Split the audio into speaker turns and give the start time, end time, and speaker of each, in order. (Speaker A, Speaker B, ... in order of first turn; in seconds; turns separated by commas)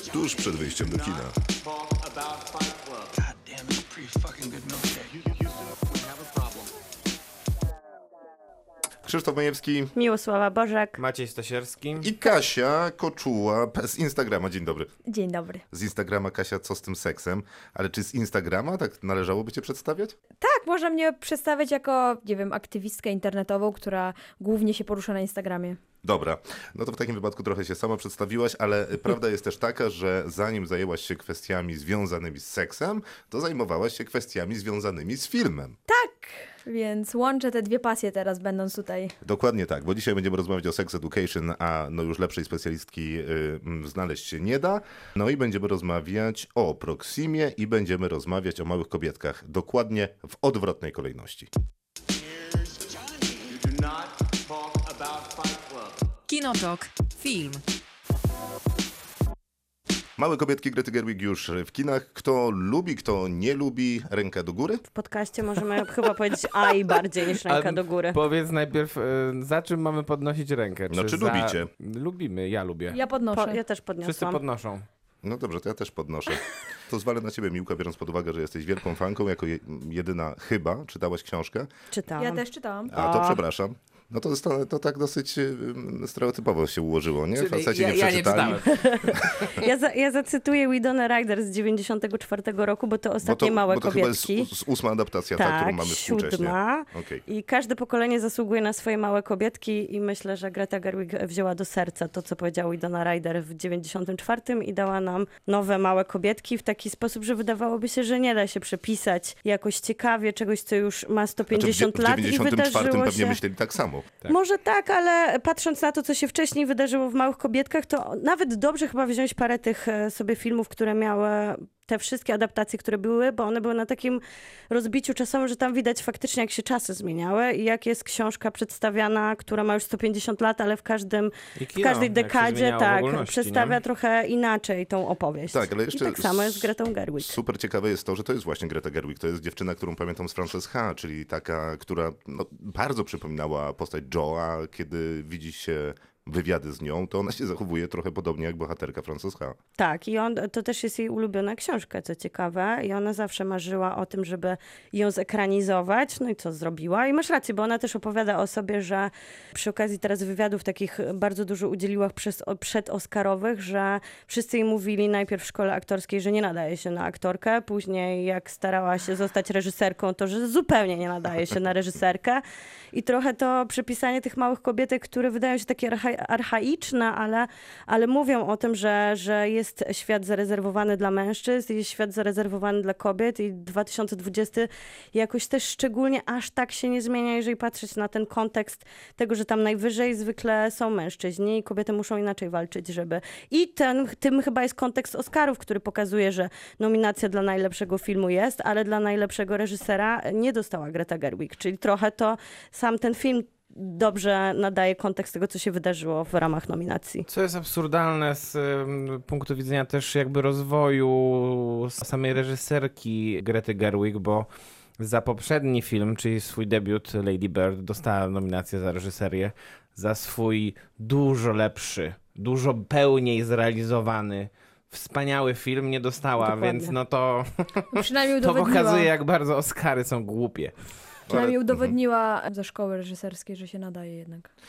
Speaker A: 0.1-1.4, Speaker A: 3.7-4.6, Speaker A: 9.0-9.9, Speaker B: 9.9-11.0, Speaker C: 11.0-12.1, Speaker A: 12.0-14.9, Speaker D: 15.1-15.6, Speaker A: 15.7-20.1, Speaker D: 20.4-25.8, Speaker A: 26.0-35.8, Speaker D: 35.9-39.1, Speaker A: 39.2-51.5, Speaker E: 56.3-57.6, Speaker A: 60.2-64.8, Speaker B: 64.9-68.2, Speaker C: 67.5-73.0, Speaker A: 70.9-71.7, Speaker D: 72.9-73.6, Speaker B: 73.3-74.4, Speaker C: 74.0-74.9, Speaker A: 75.2-81.7, Speaker B: 81.9-82.4, Speaker D: 82.2-83.0, Speaker A: 82.9-89.6, Speaker B: 83.0-83.4, Speaker C: 87.4-88.6, Speaker E: 87.4-88.6, Speaker B: 88.6-94.5, Speaker A: 93.2-97.2, Speaker B: 95.4-113.4, Speaker A: 111.5-114.1, Speaker B: 114.3-137.3, Speaker C: 131.6-133.8, Speaker A: 135.5-136.7, Speaker A: 137.2-149.6, Speaker B: 149.8-172.4, Speaker B: 172.9-207.3, Speaker C: 207.3-214.5, Speaker C: 215.0-230.7, Speaker B: 226.4-227.0, Speaker D: 227.9-229.1, Speaker A: 231.3-232.0, Speaker D: 231.3-234.5